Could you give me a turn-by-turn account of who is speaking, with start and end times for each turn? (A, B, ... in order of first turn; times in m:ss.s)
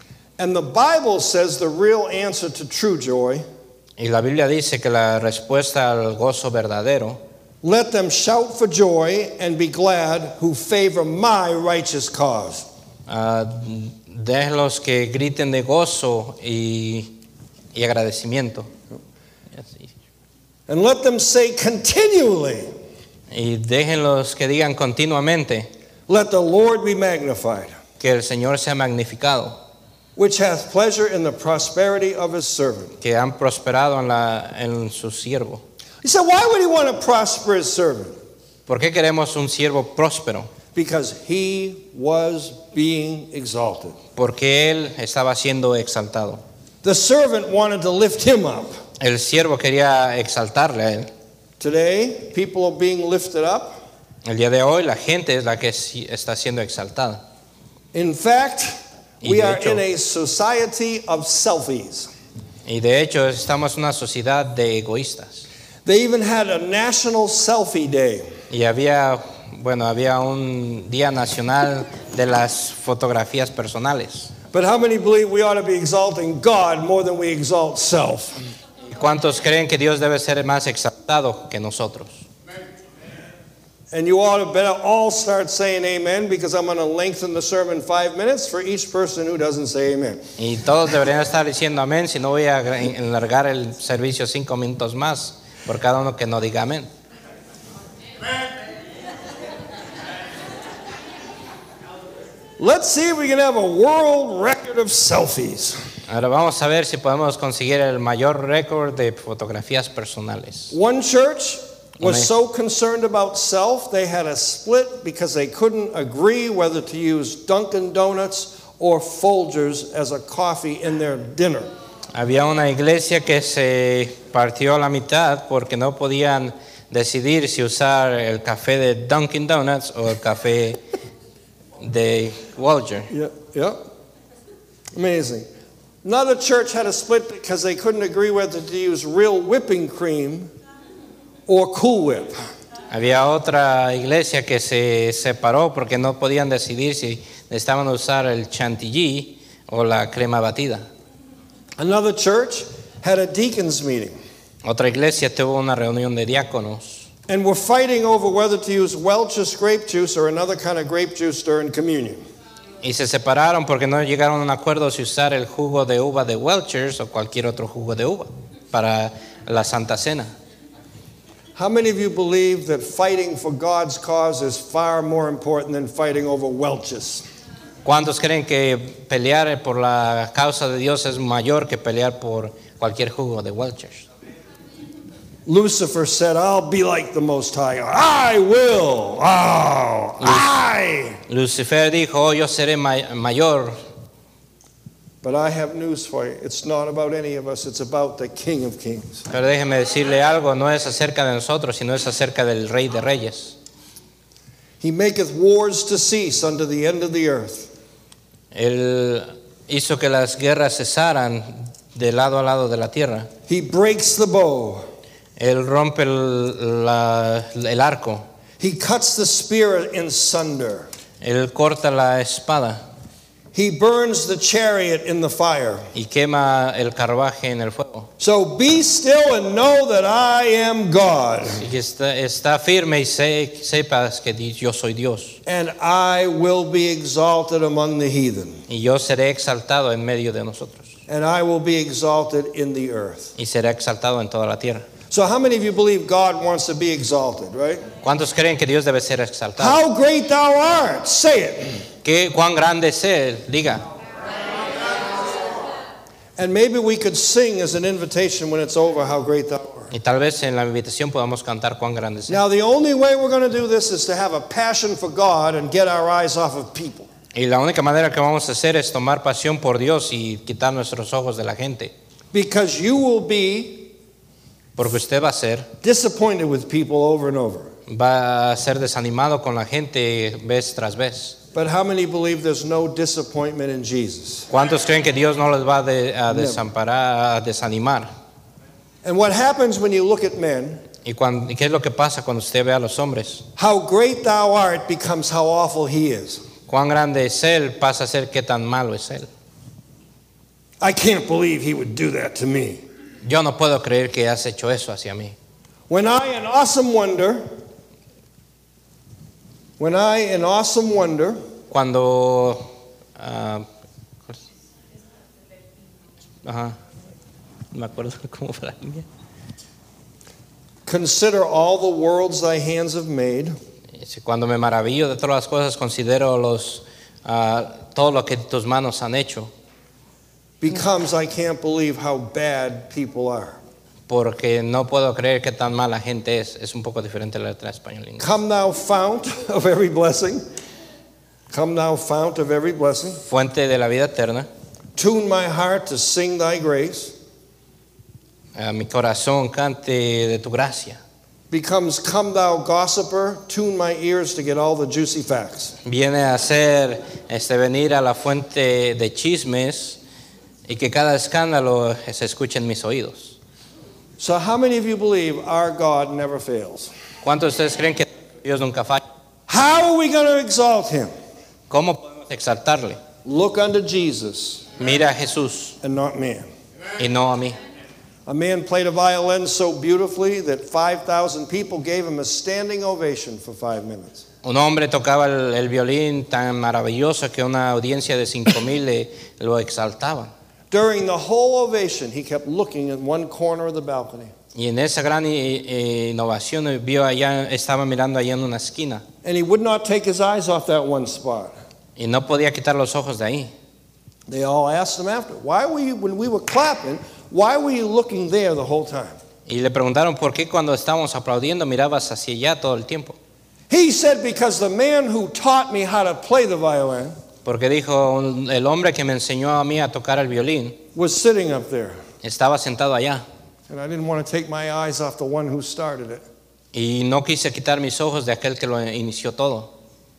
0:00.4-0:03.4 A
0:04.0-0:07.2 B
0:07.6-0:12.7 A
0:13.1-0:17.2 B
0:17.7-0:18.7 B
0:19.6-0:19.9 B
0:20.7-0:22.7 A
0:23.3-0:25.7 B
0:26.1-0:27.8 A
0:28.0-0:29.6 B
0:30.2-0:32.9 A
0:33.0-0:35.6 B
0:36.0-0:38.2 A
0:38.7-0:40.5 B
0:40.8-0:44.0 A
0:44.2-0:46.4 B
0:46.8-0:48.8 A
0:49.0-0:51.1 B
0:51.6-0:53.8 A
0:54.2-0:57.2 B
0:57.9-1:02.1 A
0:59.2-0:59.8 B
1:02.6-1:05.4 B
1:05.8-1:08.3 A
1:08.5-1:14.3 B
1:14.5-1:18.4 A
1:18.8-1:22.2 B
1:23.9-1:30.2 A
1:30.4-1:36.9 B
1:42.6-1:45.8 A
1:46.1-1:50.7 B
1:50.7-2:01.7 A
1:52.0-1:52.3 B
2:02.1-2:10.8 B
2:11.8-2:13.1 B
2:13.1-2:13.8 A
2:15.0-2:15.5 A
2:16.0-2:20.5 A
2:21.5-2:22.4 A
2:22.9-2:30.8 B
2:31.8-2:34.2 A
2:34.6-2:37.1 B
2:37.3-2:42.2 A
2:42.8-2:50.3 B
2:51.6-2:57.2 A
2:57.8-3:04.1 B
3:05.5-3:11.2 A
3:10.2-3:10.5 B
3:11.3-3:13.8 B
3:15.2-3:19.2 A
3:19.3-3:23.6 B
3:24.8-3:27.7 A
3:28.5-3:33.3 B
3:33.5-3:34.8 A
3:35.4-3:38.2 B
3:38.6-3:40.9 A
3:41.2-3:42.8 B
3:43.5-3:45.9 A
3:45.9-3:48.1 B
3:48.2-3:51.6 A
3:51.6-3:55.4 B
3:55.5-3:58.6 A
3:58.7-4:00.9 B
4:01.1-4:03.3 A
4:03.4-4:04.9 B
4:05.1-4:07.9 A
4:08.0-4:09.8 B
4:09.6-4:11.8 A
4:12.0-4:13.8 B
4:16.4-4:19.9 A
4:19.9-4:22.4 B
4:22.3-4:27.1 A
4:27.3-4:31.9 B
4:32.3-4:33.9 A
4:34.8-4:35.7 B
4:35.8-4:37.7 A
4:37.9-4:41.4 B
4:41.5-4:44.5 A
4:44.5-4:48.1 B
4:46.3-4:46.6 A
4:49.0-4:50.8 A
4:51.0-4:53.5 B
4:53.6-4:56.4 A
4:56.7-4:59.3 B
5:00.8-5:02.8 A
5:03.2-5:05.4 B
5:05.9-5:07.4 A
5:09.8-5:11.4 A
5:11.7-5:12.6 B
5:13.2-5:13.7 B
5:16.4-5:16.8 B
5:17.7-5:19.1 B
5:20.9-5:23.5 A
5:24.0-5:29.5 B
5:30.6-5:33.6 A
5:34.1-5:38.3 B
5:38.2-5:40.4 A
5:41.5-5:43.2 A
5:43.3-5:44.5 B
5:45.0-5:47.1 A
5:48.6-5:51.0 B
5:51.5-5:55.8 A
5:55.8-6:00.0 B
6:00.7-6:03.4 B
6:04.2-6:06.9 A
6:07.2-6:09.0 B
6:09.5-6:11.1 A
6:11.7-6:13.0 B
6:13.2-6:14.7 A
6:14.8-6:15.8 B
6:15.8-6:16.5 A
6:17.0-6:17.6 B
6:18.3-6:24.2 A
6:24.4-6:30.3 B
6:30.7-6:34.3 A
6:34.6-6:39.0 B
6:39.2-6:41.5 A
6:42.0-6:43.5 B
6:44.3-6:49.2 A
6:49.5-6:53.2 B
6:53.7-6:57.2 A
6:57.4-7:00.8 B
7:01.0-7:02.0 A
7:02.2-7:03.2 B
7:03.7-7:06.2 A
7:06.7-7:09.7 B